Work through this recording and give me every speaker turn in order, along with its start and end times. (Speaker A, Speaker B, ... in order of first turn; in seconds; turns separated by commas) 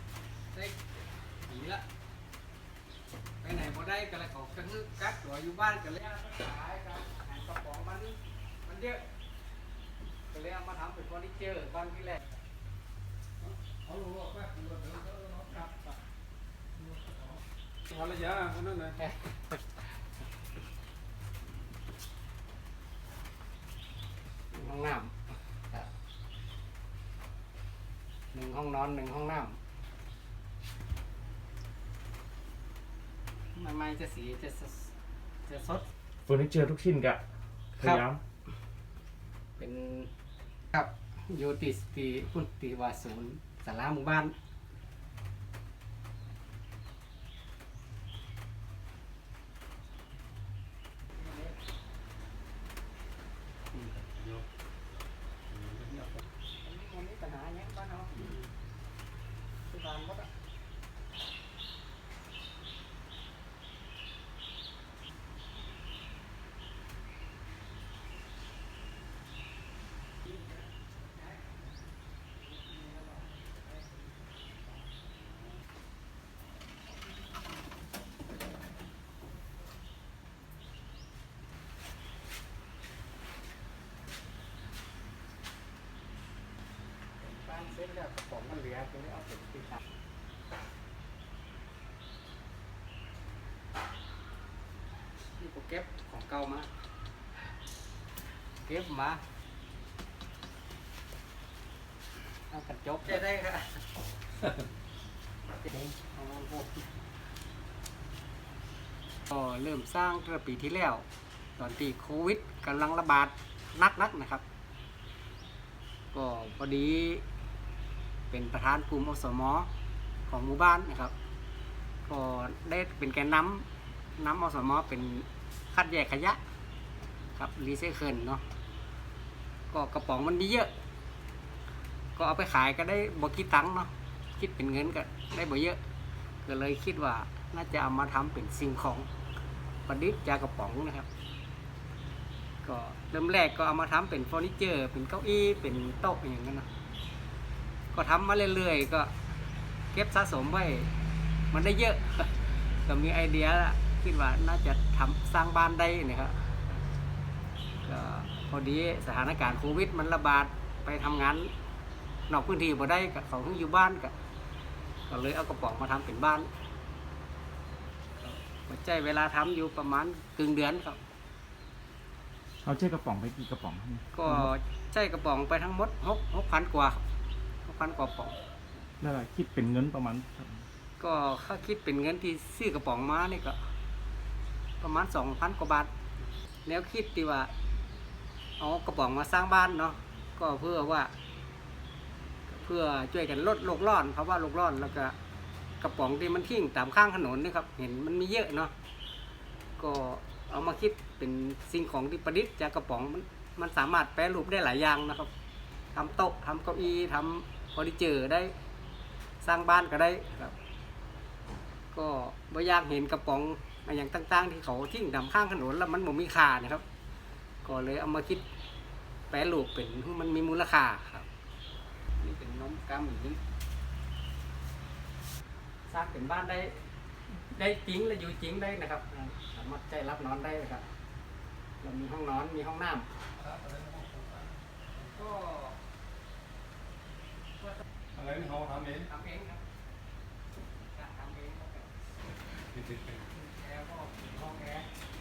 Speaker A: 0.5-0.8, Speaker A: 1.4-1.8, Speaker A: 3.4-9.1, Speaker A: 10.3-12.3, Speaker B: 13.4-15.6, Speaker B: 16.8-17.1, Speaker B: 17.9-18.9, Speaker A: 18.9-19.8, Speaker A: 24.5-25.1, Speaker A: 28.3-29.6, Speaker A: 33.5-34.9, Speaker A: 35.5-35.8, Speaker C: 36.3-37.2, Speaker C: 37.8-38.2, Speaker A: 39.6-40.1, Speaker A: 40.7-44.3, Speaker A: 51.1-51.5, Speaker B: 53.7-54.4, Speaker B: 55.5-56.2, Speaker A: 56.6-58.5, Speaker A: 59.6-60.3, Speaker A: 87.2-89.8, Speaker A: 95.4-96.7, Speaker A: 98.6-99.2, Speaker A: 102.5-103.8, Speaker A: 105.6-106.9, Speaker A: 109.3-111.0, Speaker A: 111.6-114.4, Speaker A: 116.1-117.2, Speaker A: 118.3-119.7, Speaker A: 120.3-121.1, Speaker A: 122.1-123.7, Speaker A: 124.2-126.4, Speaker A: 127.3-128.4, Speaker A: 129.7-130.7, Speaker A: 132.2-135.8, Speaker A: 136.4-139.1, Speaker A: 139.9-141.1, Speaker A: 142.6-146.7, Speaker A: 147.9-149.1, Speaker A: 149.9-150.9, Speaker A: 151.5-156.5, Speaker A: 157.8-161.5, Speaker A: 162.3-164.1, Speaker A: 165.1-166.5, Speaker A: 168.2-171.0, Speaker C: 172.6-174.5, Speaker A: 174.1-177.0, Speaker A: 177.6-178.4, Speaker C: 179.0-180.7, Speaker A: 181.0-183.6, Speaker A: 184.8-185.9, Speaker A: 186.7-187.5, Speaker A: 188.6-191.1, Speaker A: 192.5-195.1, Speaker A: 195.8-198.7, Speaker A: 199.8-205.3, Speaker A: 205.9-208.5, Speaker A: 209.4-210.6, Speaker A: 211.9-216.8, Speaker A: 217.6-218.4, Speaker A: 219.3-221.3, Speaker A: 222.2-223.4, Speaker A: 225.9-230.9, Speaker A: 231.8-233.1, Speaker B: 233.4-234.5, Speaker A: 235.0-235.8, Speaker B: 238.1-239.1, Speaker A: 239.1-239.6, Speaker A: 240.9-241.9, Speaker B: 242.8-243.1, Speaker A: 243.3-244.9